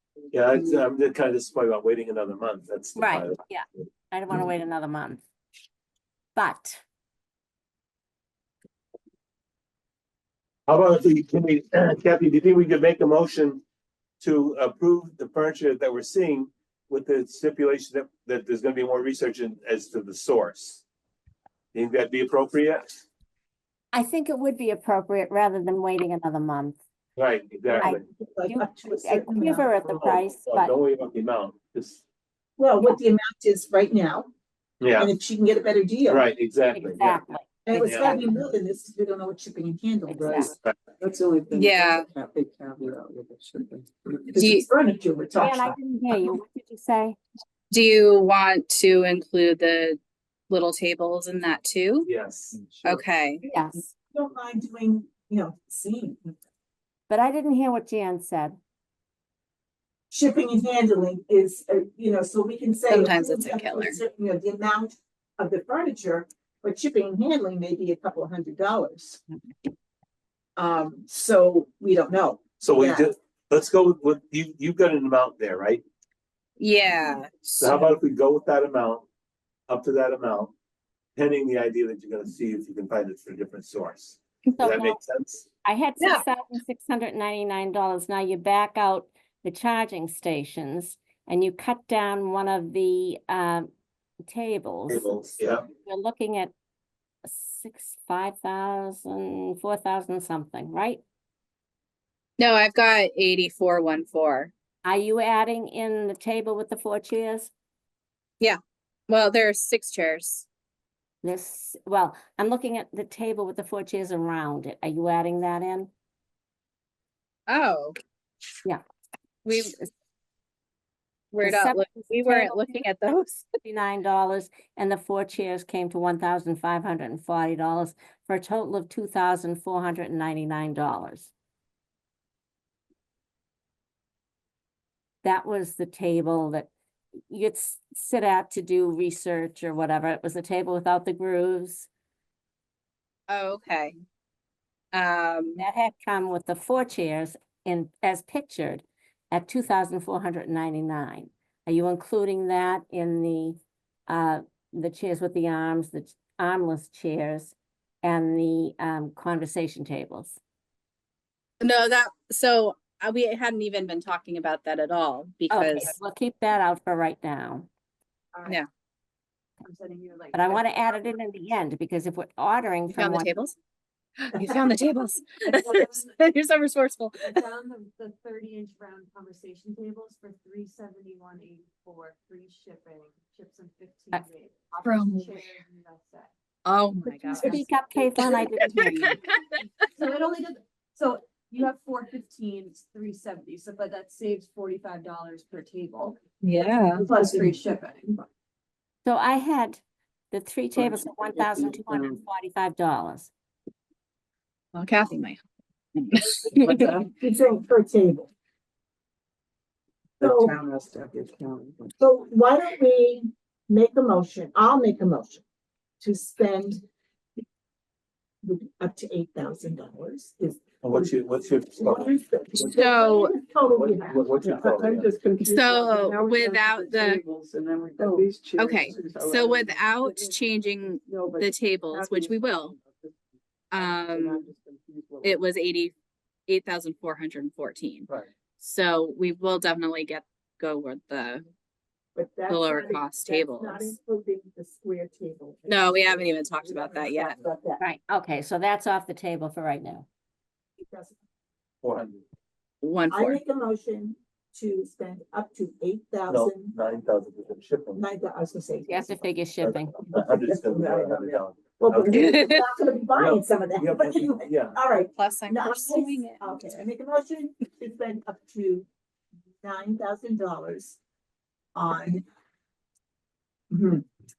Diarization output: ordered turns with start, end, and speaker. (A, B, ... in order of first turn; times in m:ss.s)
0:00.3-0:03.9 A
0:00.4-0:00.8 B
0:03.0-0:05.2 C
0:06.3-0:06.8 C
0:10.7-0:13.6 A
0:14.2-0:20.8 A
0:21.7-0:23.0 A
0:23.9-0:26.8 C
0:27.2-0:28.0 A
0:27.7-0:30.1 D
0:27.8-0:30.8 C
0:29.9-0:32.0 A
0:32.6-0:34.3 D
0:34.8-0:35.1 A
0:35.0-0:36.2 D
0:36.1-0:37.2 A
0:36.7-0:37.4 C
0:37.6-0:40.6 D
0:37.7-0:38.2 A
0:40.1-0:40.5 C
0:41.0-0:44.3 B
0:41.5-0:42.1 E
0:44.3-0:46.4 D
0:44.4-0:44.6 E
0:45.4-0:47.2 C
0:47.7-0:50.0 E
0:50.5-0:52.1 E
0:52.0-0:52.6 A
0:52.5-0:53.0 B
0:52.8-0:53.4 E
0:53.4-0:53.8 C
0:54.1-0:56.3 D
0:57.1-0:58.6 C
1:00.1-1:09.2 D
1:02.9-1:04.0 E
1:10.6-1:13.1 D
1:12.6-1:15.8 A
1:16.6-1:17.9 E
1:17.6-1:19.1 A
1:19.7-1:20.5 A
1:21.2-1:25.5 A
1:24.6-1:25.0 C
1:25.6-1:33.7 C
1:26.0-1:26.2 E
1:34.3-1:36.5 C
1:34.9-1:35.6 A
1:37.2-1:41.0 C
1:42.4-1:44.5 E
1:44.8-1:47.5 C
1:48.4-1:50.5 E
1:51.2-1:55.9 C
1:57.5-1:58.0 E
1:59.4-1:59.8 E
2:01.3-2:03.5 E
2:01.4-2:02.9 C
2:03.6-2:11.3 C
2:15.2-2:16.7 C
2:17.3-2:21.9 C
2:23.3-2:23.9 E
2:24.9-2:25.6 E
2:25.6-2:40.4 C
2:41.6-2:46.0 E
2:45.5-2:47.7 C
2:49.6-2:50.9 F
2:50.3-2:53.3 C
2:52.9-2:53.5 E
2:54.2-2:57.4 E
2:55.4-2:56.2 F
2:57.3-3:06.3 F
3:04.8-3:05.5 E
3:06.6-3:09.2 E
3:07.1-3:08.0 F
3:07.4-3:09.2 C
3:10.0-3:16.2 F
3:16.4-3:17.0 E
3:16.9-3:18.2 F
3:17.0-3:17.6 B
3:19.0-3:19.8 C
3:20.3-3:23.3 C
3:20.8-3:22.2 B
3:24.7-3:25.4 E
3:26.0-3:26.8 E
3:26.3-3:27.2 B
3:27.1-3:28.3 D
3:30.2-3:30.6 D
3:30.2-3:32.0 B
3:32.0-3:35.4 D
3:36.0-3:36.8 D
3:38.4-3:41.2 D
3:40.8-3:42.7 A
3:41.8-3:44.4 D
3:42.7-3:43.3 E
3:43.7-3:45.1 A
3:44.4-3:50.4 B
3:45.4-3:47.2 E
3:48.0-3:48.3 D
3:48.6-3:52.8 E
3:51.0-3:53.2 B
3:53.7-3:54.5 E
3:53.7-3:55.4 B
3:55.2-3:55.9 E
3:56.5-4:01.4 E
4:02.2-4:07.8 D
4:02.5-4:03.9 E
4:05.7-4:07.4 E
4:07.8-4:10.1 C
4:10.8-4:11.2 D
4:11.8-4:12.2 A
4:12.8-4:13.4 E
4:13.1-4:16.7 D
4:16.3-4:18.0 A
4:18.0-4:19.3 D
4:18.9-4:19.9 C
4:19.6-4:22.3 A
4:20.0-4:28.9 D
4:22.1-4:22.5 E
4:23.1-4:24.8 A
4:25.1-4:26.4 E
4:29.6-4:31.0 D
4:31.8-4:32.2 D
4:33.7-4:34.0 D